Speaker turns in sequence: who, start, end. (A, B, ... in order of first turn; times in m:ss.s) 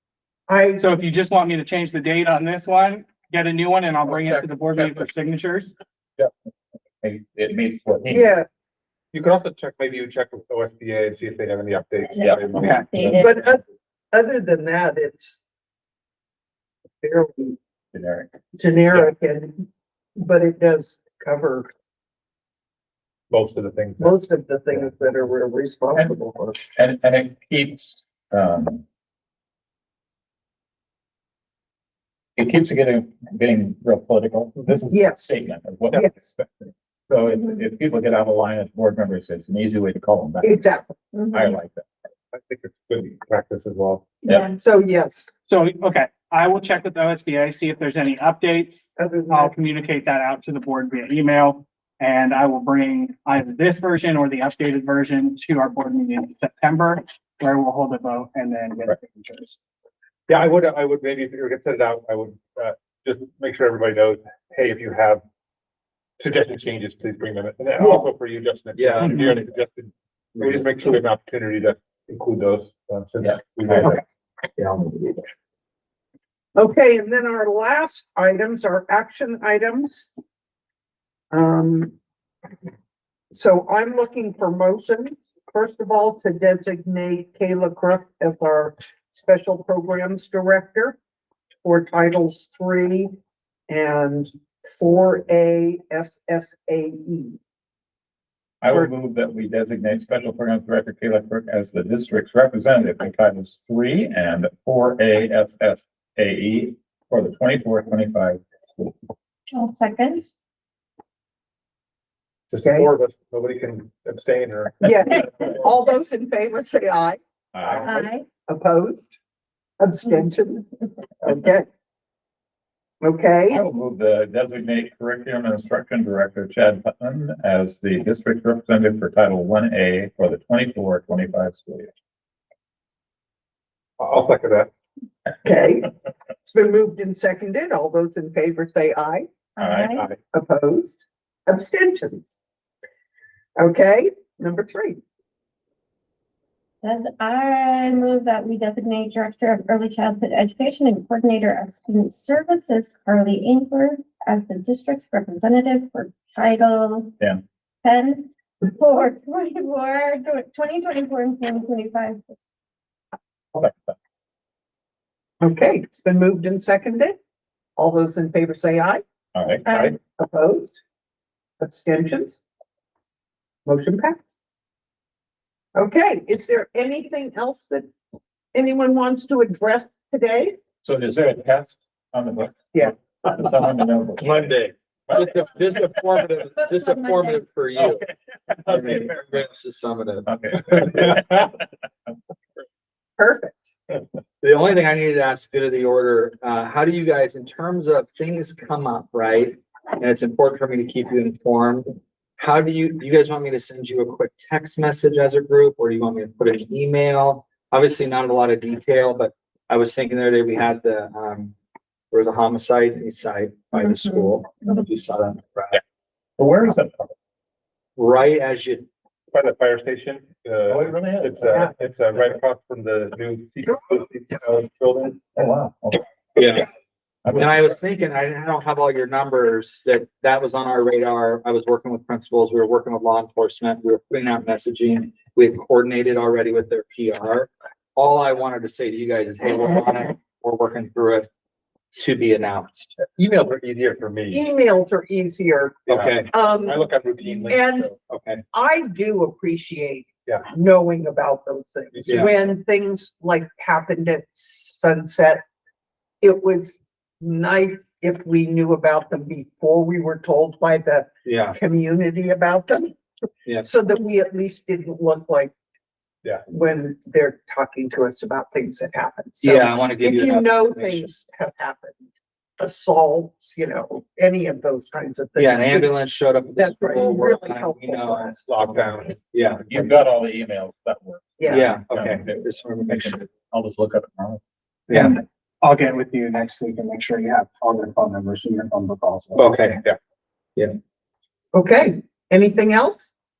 0:00.5-0:00.9 A
0:00.8-0:05.7 B
0:07.0-0:08.3 C
0:08.0-0:08.5 A
0:09.1-0:12.9 D
0:12.1-0:13.4 E
0:12.2-0:13.2 C
0:12.6-0:12.9 B
0:13.2-0:15.4 A
0:17.0-0:17.6 A
0:17.9-0:18.3 C
0:18.6-0:19.6 A
0:20.2-0:21.7 A
0:23.3-0:24.9 D
0:24.0-0:26.6 A
0:26.7-0:28.8 C
0:32.4-0:40.6 C
0:34.9-0:35.3 A
0:40.4-0:41.0 A
0:41.1-0:41.5 E
0:41.3-0:41.9 C
0:42.3-0:44.0 D
0:44.2-0:44.5 C
0:44.2-0:44.6 E
0:44.6-0:45.3 A
0:45.5-0:59.6 B
0:49.0-0:49.5 A
1:00.3-1:05.2 D
1:06.2-1:14.0 D
1:07.8-1:08.0 A
1:08.8-1:09.4 F
1:09.0-1:09.3 B
1:10.3-1:10.8 F
1:14.6-1:15.2 F
1:16.6-1:20.1 A
1:21.3-1:21.9 A
1:23.3-1:31.0 A
1:31.6-1:33.1 A
1:33.7-1:37.4 A
1:38.6-1:48.9 C
1:49.5-1:50.3 E
1:52.5-1:55.5 D
1:52.6-1:52.9 A
1:54.8-1:59.1 A
1:57.5-1:58.0 C
1:57.8-1:58.3 E
1:59.8-2:00.7 A
2:00.0-2:00.3 E
2:01.2-2:01.7 A
2:03.0-2:03.6 A
2:03.5-2:11.9 C
2:14.0-2:14.7 D
2:15.4-2:15.9 A
2:16.4-2:19.2 A
2:19.6-2:20.0 E
2:19.6-2:20.0 C
2:20.3-2:22.3 A
2:23.6-2:25.0 A
2:26.8-2:37.2 E
2:37.8-2:42.2 E
2:43.5-2:43.9 C
2:45.4-2:47.1 A
2:47.8-2:49.0 A
2:49.3-2:49.9 C
2:49.6-2:50.0 E
2:49.7-2:50.8 A
2:51.6-2:52.4 A
2:53.6-2:54.2 A
2:55.7-2:57.9 A
2:58.5-3:00.6 A
3:00.8-3:04.5 C
3:04.2-3:04.7 D
3:05.1-3:05.9 C
3:05.1-3:08.0 F
3:06.6-3:07.4 E
3:07.8-3:09.4 C
3:08.6-3:11.1 F
3:10.2-3:11.6 C
3:13.2-3:13.7 A
3:14.4-3:31.5 F
3:32.1-3:35.8 F
3:33.7-3:34.8 E
3:36.4-3:37.1 C
3:38.0-3:38.9 F
3:39.3-3:45.3 D
3:40.7-3:41.7 C
3:45.3-3:46.0 C
3:46.4-3:46.7 F
3:47.2-3:47.6 C
3:47.3-4:01.3 F
4:01.9-4:02.9 F
4:03.2-4:04.4 D
4:04.3-4:07.9 A
4:05.9-4:06.3 F
4:05.9-4:08.0 D
4:08.1-4:08.4 F
4:08.5-4:15.4 A
4:11.9-4:12.5 D
4:12.1-4:12.3 F
4:16.2-4:22.9 A
4:21.2-4:21.6 F
4:23.6-4:25.5 A
4:26.5-4:32.0 A
4:29.4-4:31.1 F
4:32.6-4:36.0 A
4:35.4-4:38.4 F
4:36.5-4:38.5 A
4:38.5-4:39.9 D
4:39.3-4:39.6 F
4:39.7-4:44.4 C
4:41.4-4:41.7 A
4:41.5-4:43.2 F
4:44.9-4:45.2 F
4:44.9-4:49.6 B
4:49.4-4:49.8 F
4:51.5-4:53.1 A